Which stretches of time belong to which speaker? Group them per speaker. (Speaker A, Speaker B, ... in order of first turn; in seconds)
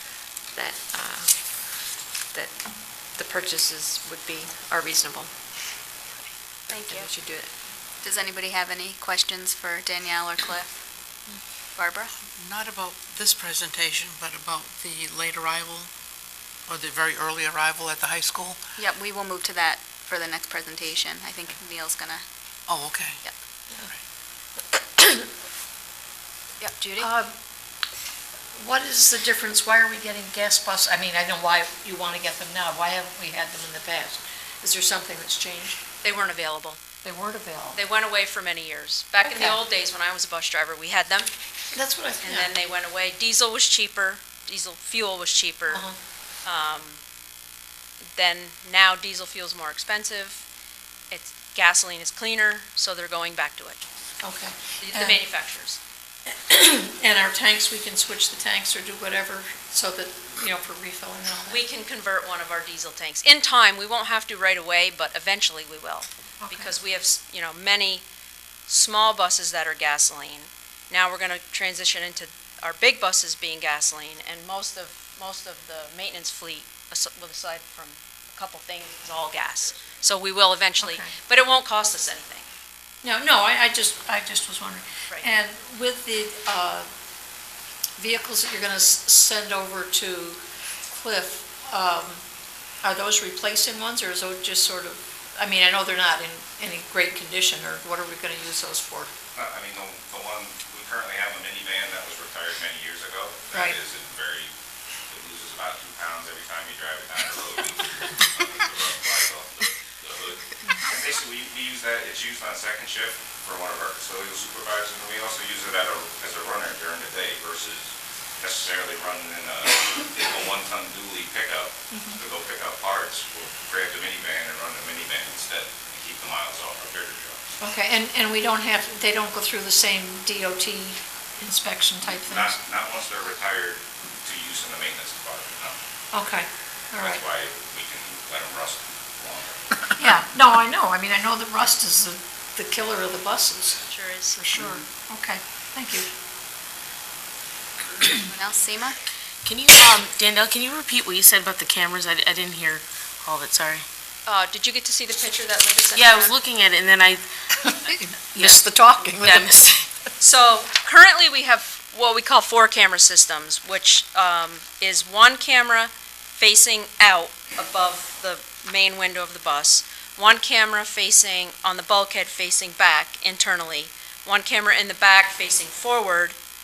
Speaker A: 0.6-1.4, 3.0-5.3, 6.7-7.5
Speaker B: 6.7-7.1, 8.0-10.8, 11.8-12.1, 18.8-22.2, 26.6-27.1, 148.3-149.0
Speaker C: 12.2-15.9, 16.7-18.6, 22.7-23.2
Speaker D: 27.0-27.4, 28.6-35.8, 37.0-37.8, 39.2-39.6, 41.7-42.5, 45.7-46.0, 54.2-55.2, 56.3-61.6, 66.4-66.8, 80.8-81.1, 83.0-86.9, 88.0-92.2, 92.8-99.1, 103.5-103.8, 121.9-122.2, 127.6-132.6, 136.1-137.2, 140.0-143.8, 144.4-146.1, 148.0-148.3, 157.6-159.6
Speaker E: 36.0-36.8, 37.7-41.3, 42.2-45.8, 46.5-47.0, 48.1-50.5, 51.1-53.8, 54.8-55.8, 61.5-68.0, 68.7-82.5, 143.9-144.8, 154.3-156.4, 160.2-176.4
Speaker F: 99.3-104.5, 105.1-127.4, 132.0-135.8, 137.0-139.6
Speaker G: 149.4-153.9, 155.9-157.3, 158.4-159.9